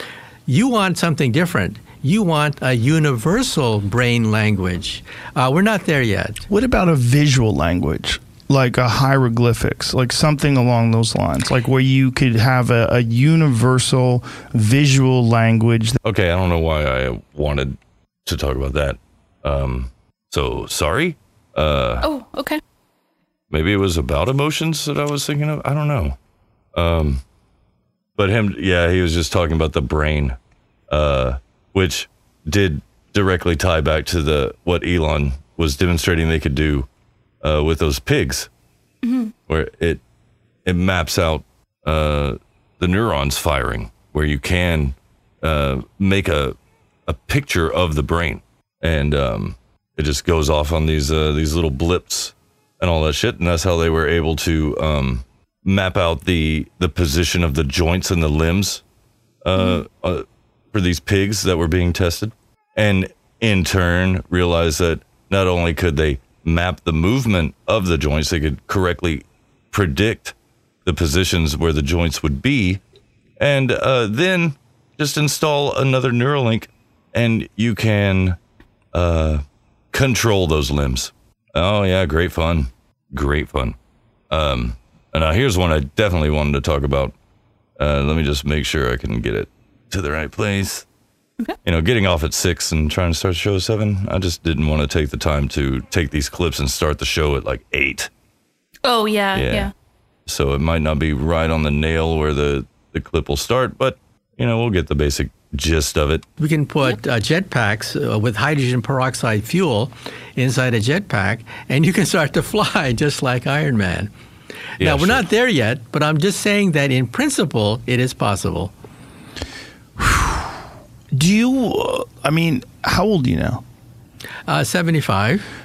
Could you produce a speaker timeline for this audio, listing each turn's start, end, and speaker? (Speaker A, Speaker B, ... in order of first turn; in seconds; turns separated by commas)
Speaker A: 0.5-6.4, Speaker B: 6.5-16.0, Speaker C: 16.0-22.0, Speaker D: 22.0-22.6, Speaker C: 23.5-26.1, Speaker C: 26.7-27.2, Speaker C: 28.2-30.4, Speaker C: 30.9-36.9, Speaker C: 37.4-38.5, Speaker D: 39.0-39.3, Speaker C: 39.5-40.0, Speaker C: 40.6-46.5, Speaker C: 47.1-58.8, Speaker C: 59.4-70.3, Speaker D: 59.5-59.8, Speaker C: 70.8-72.8, Speaker C: 73.4-78.4, Speaker C: 78.9-83.7, Speaker C: 84.3-87.1, Speaker C: 87.8-90.8, Speaker C: 91.6-98.1, Speaker D: 98.8-99.7, Speaker C: 99.3-99.7, Speaker C: 100.2-106.2, Speaker A: 106.4-114.1, Speaker A: 114.8-118.7, Speaker C: 114.8-115.2, Speaker B: 120.0-120.5, Speaker B: 121.1-123.6, Speaker A: 124.5-125.5